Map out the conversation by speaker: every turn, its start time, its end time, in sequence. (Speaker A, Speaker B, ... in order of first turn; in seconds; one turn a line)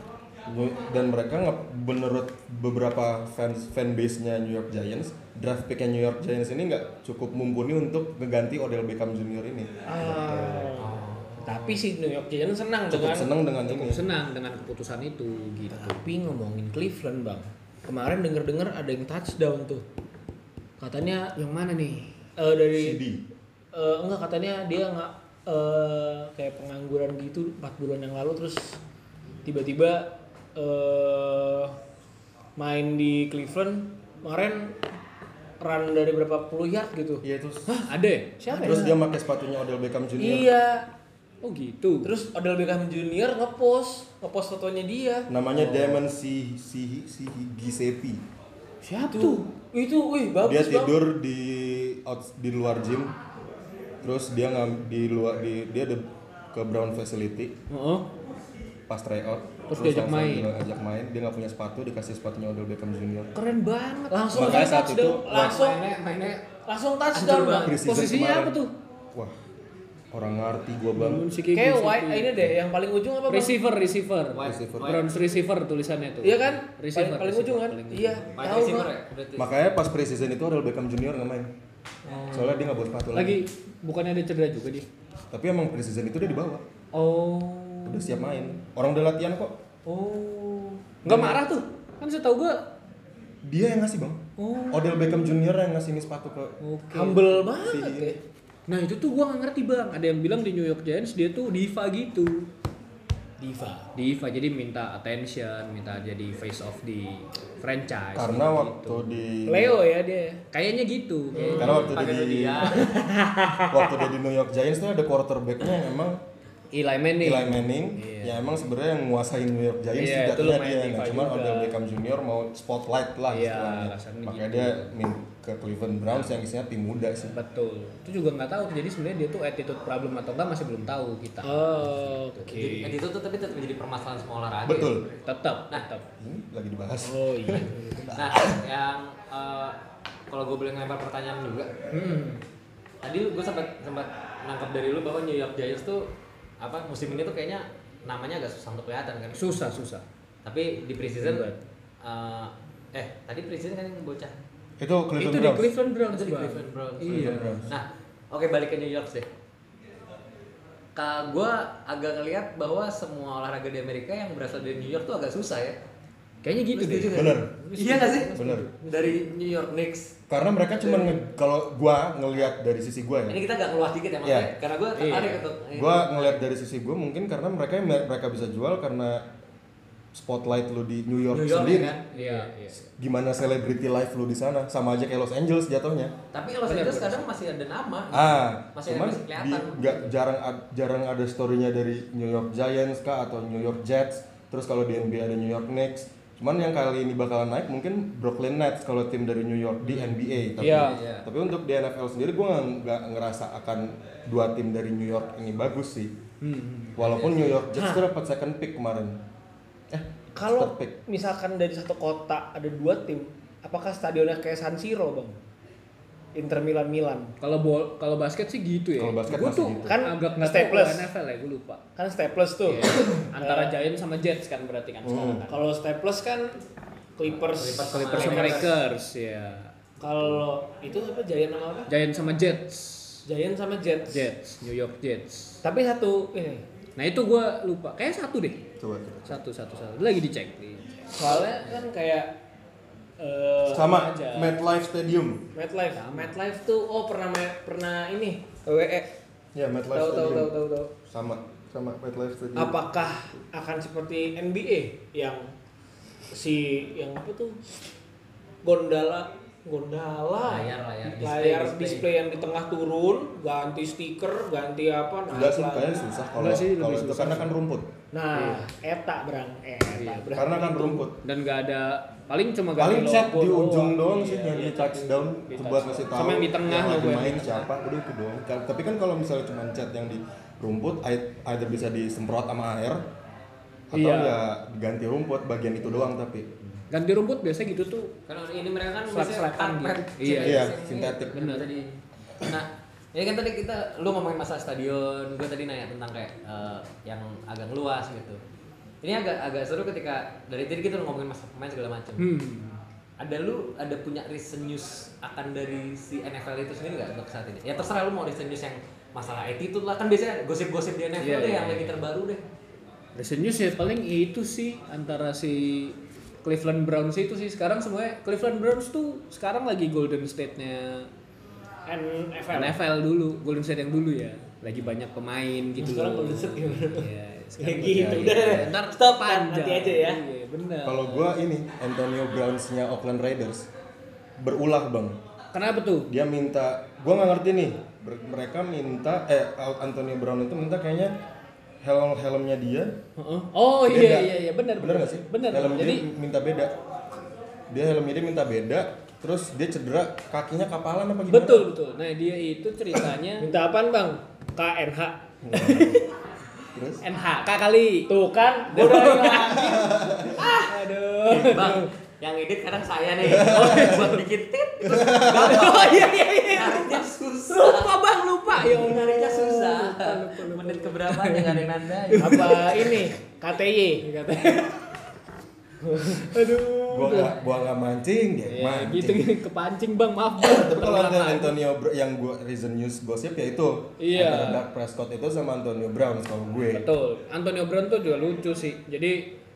Speaker A: 0.5-10.8
Speaker B: 9.9-13.3
Speaker C: 10.8-11.6
Speaker A: 12.9-14.0
Speaker D: 13.7-16.0
Speaker B: 15.7-19.8
Speaker B: 20.8-21.3
Speaker D: 21.4-22.2
Speaker B: 22.4-23.0
Speaker A: 22.7-23.2
Speaker B: 23.7-28.8
Speaker B: 29.4-31.8
Speaker B: 32.6-34.8
Speaker B: 35.6-39.0
Speaker A: 37.2-37.7
Speaker D: 37.8-38.9
Speaker A: 38.5-40.5
Speaker B: 40.2-40.9
Speaker D: 41.4-42.1
Speaker B: 42.0-46.0
Speaker A: 45.3-48.2
Speaker D: 48.9-49.5
Speaker B: 49.0-51.0
Speaker A: 50.4-53.1
Speaker A: 54.0-57.6
Speaker D: 57.7-58.1
Speaker A: 58.9-63.3
Speaker D: 59.7-60.6
Speaker D: 63.4-64.8
Speaker B: 64.1-65.8
Speaker A: 64.3-65.6
Speaker C: 65.3-66.5
Speaker B: 66.7-67.8
Speaker C: 67.1-67.7
Speaker A: 67.6-68.6
Speaker D: 67.8-68.7
Speaker A: 70.1-71.3
Speaker D: 71.0-72.5
Speaker B: 71.5-73.6
Speaker D: 73.3-78.3
Speaker C: 74.3-75.0
Speaker A: 74.4-75.0
Speaker B: 76.2-78.9
Speaker C: 78.4-79.5
Speaker A: 79.4-81.5
Speaker B: 82.0-82.8
Speaker A: 82.3-83.4
Speaker D: 83.1-84.9
Speaker A: 85.3-86.6
Speaker D: 86.9-88.5
Speaker A: 87.8-89.6
Speaker B: 89.9-91.1
Speaker D: 91.0-92.7
Speaker A: 91.1-91.3
Speaker A: 93.4-96.6
Speaker D: 94.4-95.3
Speaker D: 96.6-97.4
Speaker B: 96.9-98.2
Speaker A: 97.6-98.2
Speaker D: 98.7-102.5
Speaker B: 103.4-103.9
Speaker D: 103.9-109.2
Speaker A: 108.1-109.8
Speaker B: 109.5-110.4
Speaker D: 110.5-112.0
Speaker B: 111.3-111.9
Speaker C: 111.5-112.9
Speaker A: 111.6-112.8
Speaker B: 112.7-114.0
Speaker A: 113.7-116.2
Speaker D: 116.7-118.4
Speaker A: 117.2-127.3
Speaker D: 120.0-121.8
Speaker D: 123.3-125.0
Speaker D: 127.3-133.0
Speaker B: 131.4-132.8
Speaker C: 132.5-135.0
Speaker A: 134.7-135.1
Speaker D: 135.2-136.1
Speaker A: 136.2-138.5
Speaker B: 137.1-138.1
Speaker C: 138.1-139.8
Speaker C: 140.3-141.7
Speaker D: 141.9-142.4
Speaker C: 143.0-149.6
Speaker D: 149.3-150.1
Speaker C: 150.4-151.5
Speaker D: 151.2-151.6
Speaker C: 152.0-154.4
Speaker A: 154.8-155.7
Speaker D: 155.2-157.7
Speaker C: 156.1-159.3
Speaker A: 157.1-157.7
Speaker C: 161.0-165.8
Speaker D: 166.4-168.6
Speaker C: 166.7-170.2
Speaker A: 167.1-167.5
Speaker B: 167.6-168.3
Speaker A: 168.3-168.7
Speaker A: 170.3-173.4
Speaker C: 170.7-171.2
Speaker C: 173.3-176.5
Speaker A: 174.2-174.5
Speaker D: 174.9-175.5
Speaker A: 175.7-179.3
Speaker A: 180.1-182.0
Speaker C: 181.3-182.4
Speaker D: 182.1-182.9
Speaker A: 182.9-186.2
Speaker C: 186.3-190.1
Speaker D: 186.7-187.3
Speaker A: 188.1-206.2
Speaker D: 199.8-201.0
Speaker C: 200.6-201.3
Speaker D: 206.4-207.2
Speaker A: 207.0-209.2
Speaker C: 207.0-207.5
Speaker B: 207.7-208.1
Speaker A: 209.9-210.9
Speaker B: 210.3-215.4
Speaker B: 216.3-217.3
Speaker D: 217.4-221.8
Speaker A: 219.0-220.0
Speaker B: 219.9-221.1
Speaker B: 222.0-223.8
Speaker D: 222.7-225.7
Speaker A: 225.0-225.4
Speaker B: 225.5-226.6
Speaker B: 227.2-228.8
Speaker C: 227.4-228.7
Speaker D: 228.1-229.7
Speaker B: 230.0-231.9
Speaker D: 231.9-233.2
Speaker B: 233.3-234.3
Speaker D: 234.1-235.6
Speaker B: 235.6-236.7
Speaker D: 237.0-238.7
Speaker A: 238.8-239.4
Speaker D: 239.3-240.9
Speaker B: 241.2-242.3
Speaker B: 243.2-243.9
Speaker A: 243.7-245.4
Speaker D: 243.8-244.6
Speaker B: 245.5-249.1
Speaker D: 245.9-246.4
Speaker A: 249.6-250.5
Speaker B: 249.9-250.9
Speaker A: 251.1-252.8
Speaker B: 252.6-255.5
Speaker B: 256.3-257.6
Speaker B: 258.6-266.1
Speaker C: 260.4-262.1
Speaker A: 265.3-267.9
Speaker D: 266.4-267.6
Speaker B: 268.1-271.1
Speaker D: 268.3-268.6
Speaker D: 269.9-270.4
Speaker A: 270.3-271.2
Speaker D: 271.2-277.7
Speaker A: 272.8-283.0
Speaker A: 283.9-286.5
Speaker D: 283.9-284.4
Speaker D: 286.9-288.1
Speaker C: 288.3-298.4
Speaker D: 289.1-290.7
Speaker B: 289.2-289.9
Speaker A: 290.4-291.4
Speaker D: 291.3-291.7
Speaker C: 299.0-302.3
Speaker D: 302.2-302.8
Speaker C: 303.2-312.4
Speaker D: 311.2-312.0
Speaker D: 313.1-321.1
Speaker B: 321.9-322.8
Speaker D: 322.5-331.3
Speaker B: 325.8-327.1
Speaker B: 327.6-330.2
Speaker A: 327.9-328.7
Speaker A: 330.8-333.7
Speaker A: 334.4-335.2
Speaker D: 335.5-336.1
Speaker A: 336.1-341.2
Speaker A: 341.8-343.0
Speaker D: 343.2-346.1
Speaker A: 343.9-346.7
Speaker A: 347.7-351.7
Speaker D: 351.3-353.5
Speaker B: 353.4-356.1
Speaker A: 355.4-356.0
Speaker A: 356.7-357.0
Speaker D: 357.0-358.1
Speaker B: 358.1-360.3
Speaker D: 358.7-361.9
Speaker A: 359.6-360.4
Speaker C: 360.4-360.8
Speaker C: 361.3-367.9
Speaker A: 363.2-364.1
Speaker D: 363.4-364.2
Speaker A: 364.8-365.5
Speaker D: 365.1-373.1
Speaker C: 368.6-372.7
Speaker B: 368.6-369.1
Speaker B: 372.1-374.1
Speaker D: 374.0-374.8
Speaker B: 375.8-376.6
Speaker D: 376.0-377.4
Speaker A: 376.9-379.3
Speaker D: 378.5-381.6
Speaker A: 380.4-386.9
Speaker D: 384.0-384.6
Speaker D: 386.7-389.4